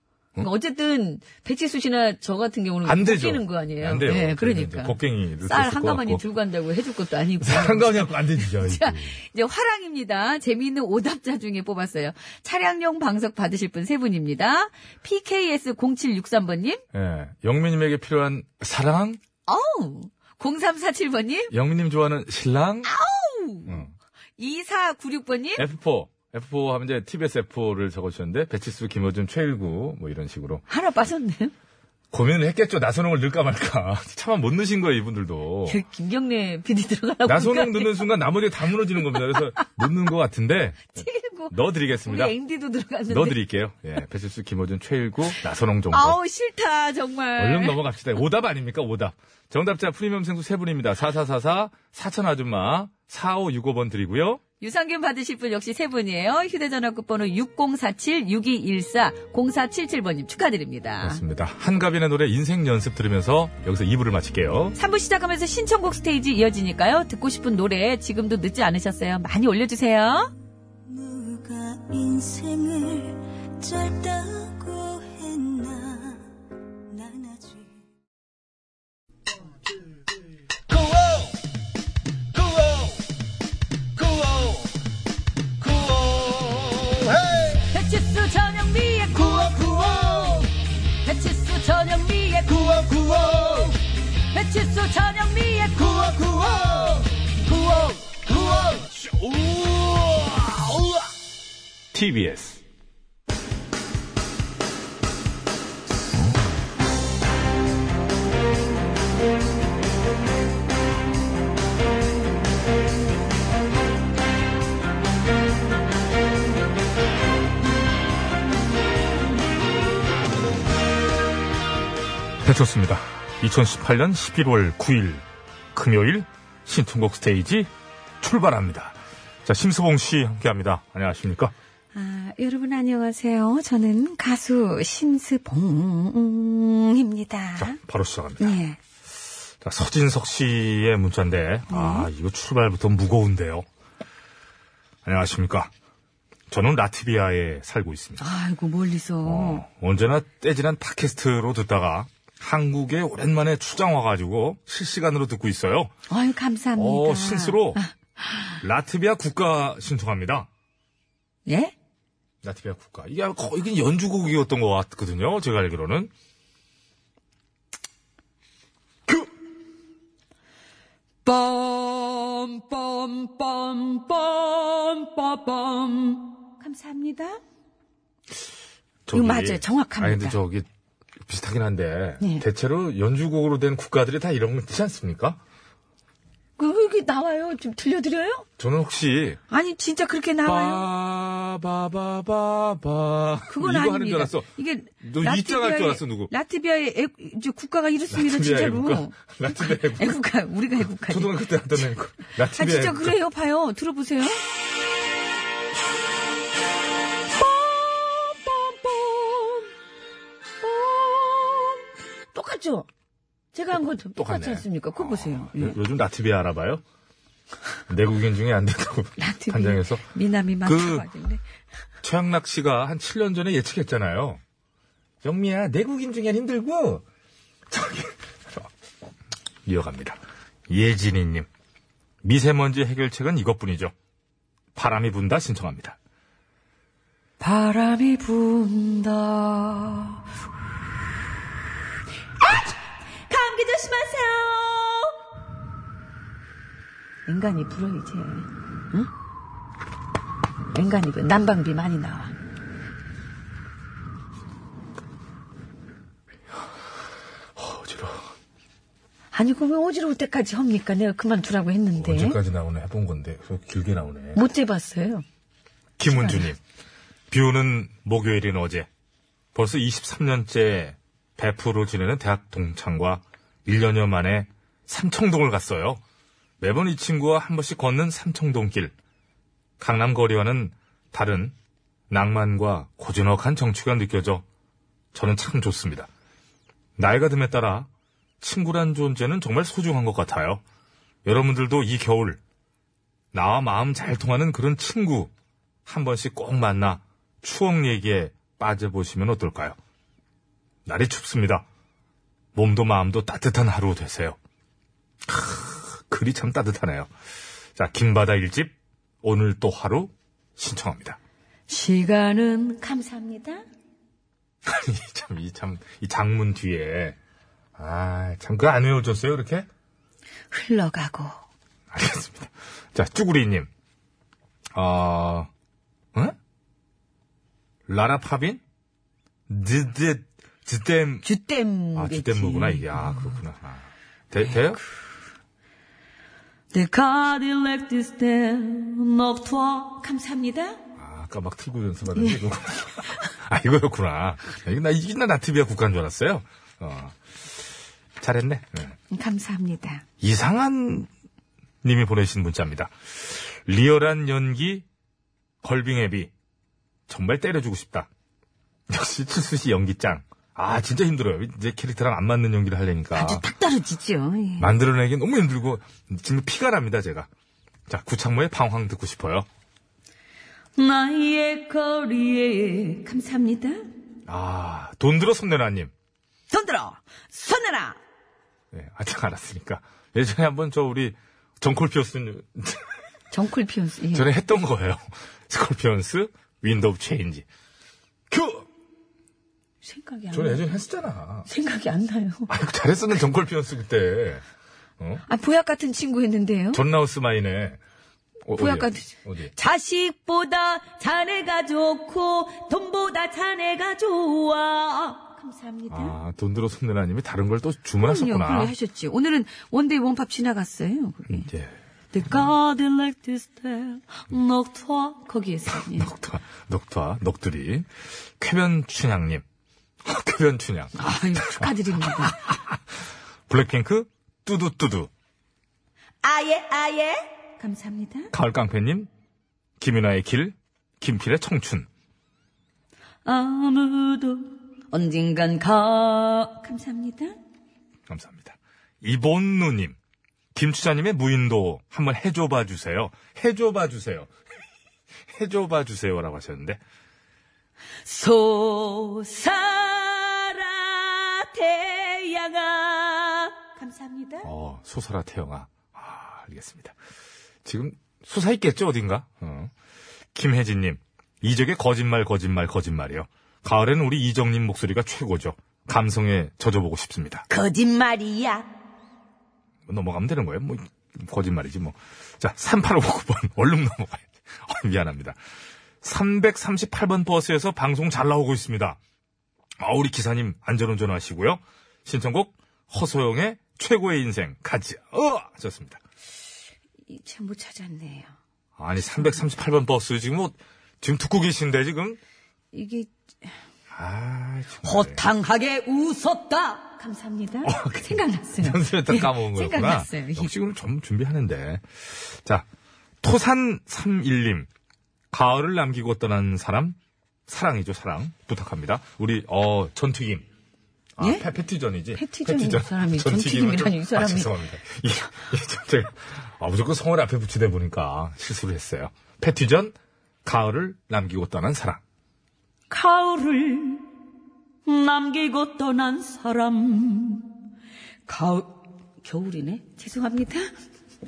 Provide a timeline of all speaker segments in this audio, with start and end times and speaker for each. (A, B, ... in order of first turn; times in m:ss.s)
0:00.4-0:05.0 A
0:02.8-0:06.2 B
0:05.5-0:16.8 A
0:07.4-0:09.2 B
0:16.9-0:19.2 B
0:19.5-0:21.5 A
0:21.5-0:22.9 B
0:22.8-0:23.8 A
0:23.7-0:23.9 B
0:24.4-0:25.6 A
0:25.6-0:30.6 B
0:30.7-0:31.5 A
0:32.1-0:35.8 B
0:35.7-0:38.0 A
0:37.3-0:42.3 B
0:39.0-0:39.7 A
0:41.0-0:41.5 A
0:42.1-0:43.4 A
0:43.1-0:46.2 B
0:45.9-0:47.8 A
0:47.4-0:54.4 B
0:54.6-1:01.2 A
1:01.0-1:04.8 B
1:04.8-1:10.3 A
1:10.9-1:16.2 C
1:16.9-1:17.7 C
1:27.6-1:30.5 A
1:31.0-1:33.8 A
1:34.3-1:38.8 A
1:39.4-1:40.2 B
1:41.9-1:42.6 B
2:02.4-2:05.2 B
2:05.7-2:07.7 B
2:08.2-2:11.5 B
2:11.9-2:17.8 A
2:17.6-2:18.6 B
2:18.4-2:18.8 A
2:19.6-2:23.7 B
2:21.7-2:22.1 A
2:25.0-2:25.7 B
2:26.5-2:28.2 B
2:28.2-2:29.6 A
2:29.2-2:35.9 B
2:36.1-2:38.6 A
2:36.8-2:37.8 B
2:38.6-2:40.5 B
2:41.5-2:41.7 A
2:42.4-2:46.1 B
2:51.2-2:57.4 A
2:59.1-3:00.7 B
2:59.1-3:00.4 A
3:01.3-3:05.4 B
3:06.6-3:08.4 A
3:08.6-3:09.4 B
3:09.5-3:10.9 A
3:10.4-3:14.5 B
3:13.5-3:21.4 A
3:15.0-3:16.3 B
3:18.1-3:20.2 B
3:21.1-3:23.2 B
3:22.5-3:24.4 A
3:27.4-3:29.7 A
3:30.6-3:32.9 A
3:33.5-3:35.8 A
3:34.2-3:36.8 B
3:37.9-3:40.0 B
3:39.2-3:41.4 A
3:40.6-3:41.1 B
3:42.0-3:44.4 B
3:45.2-3:47.0 B
3:47.7-3:48.7 B
3:49.7-3:51.5 B
3:52.2-3:53.9 B
3:54.8-3:56.0 B
3:57.4-4:00.2 A
4:02.4-4:05.2 A
4:07.3-4:09.1 A
4:10.7-4:12.3 A
4:17.6-4:18.3 B
4:19.3-4:22.4 A
4:22.0-4:24.4 B
4:24.4-4:25.2 A
4:26.0-4:26.6 B
4:26.1-4:26.5 A
4:27.3-4:28.9 B
4:29.6-4:36.0 B
4:36.6-4:38.9 B
4:39.8-4:41.5 B
4:42.1-4:44.4 B
4:45.1-4:46.1 B
4:47.0-4:47.9 B
4:48.4-4:50.6 B
4:51.2-4:52.4 B
4:53.3-4:55.3 B
4:55.9-4:59.8 B
5:00.9-5:01.6 B
5:02.6-5:04.4 B
5:05.3-5:07.1 B
5:07.8-5:11.2 B
5:11.7-5:13.6 A
5:14.6-5:17.2 B
5:17.8-5:19.7 B
5:20.5-5:21.4 A
5:21.9-5:23.7 B
5:24.7-5:25.5 B
5:27.9-5:28.6 B
5:29.5-5:31.2 B
5:31.2-5:33.4 A
5:32.0-5:34.8 B
5:34.5-5:34.8 A
5:36.7-5:40.8 A
5:41.0-5:47.2 B
5:48.2-5:49.0 B
5:49.1-5:50.0 A
5:50.2-5:51.1 B
5:51.8-5:54.8 B
5:55.6-5:56.3 B
5:57.1-5:58.1 B
5:58.9-6:03.4 B
6:03.2-6:04.7 A
6:04.6-6:07.3 B
6:07.9-6:09.5 B
6:10.8-6:13.8 A
6:14.3-6:15.9 B
6:16.5-6:18.0 A
6:18.7-6:22.8 B
6:23.3-6:24.3 A
6:24.1-6:27.4 B
6:28.3-6:28.7 B
6:29.8-6:30.7 A
6:30.3-6:31.5 B
6:31.5-6:32.5 A
6:32.5-6:34.4 B
6:35.3-6:36.8 A
6:36.7-6:37.8 B
6:38.5-6:39.5 B
6:38.5-6:46.2 A
6:45.9-6:48.7 B
6:48.0-6:51.5 A
6:51.3-6:51.7 B
6:52.1-6:56.1 A
6:55.9-6:57.9 B
6:58.4-6:59.4 B
7:00.0-7:02.6 B
7:01.0-7:02.4 A
7:03.5-7:05.1 B
7:06.2-7:08.3 A
7:08.3-7:09.1 B
7:09.8-7:11.9 B
7:13.2-7:17.4 A
7:18.1-7:20.0 B
7:20.6-7:24.3 B
7:25.3-7:26.8 B
7:28.1-7:34.5 A
7:34.4-7:37.0 B
7:37.6-7:39.7 B
7:40.4-7:47.4 B
7:47.5-7:48.7 A
7:49.9-7:55.4 B
7:56.0-7:59.0 B
7:59.8-8:06.0 B
8:07.1-8:08.3 A
8:08.8-8:12.2 B
8:12.7-8:13.1 A
8:13.9-8:15.2 B
8:14.8-8:20.5 A
8:17.6-8:22.6 B
8:23.2-8:24.7 B
8:25.3-8:27.0 B
8:27.5-8:30.4 B
8:31.2-8:42.0 B
8:32.1-8:34.5 A
8:42.9-8:44.1 A
8:44.9-8:47.5 A
8:48.3-8:50.7 A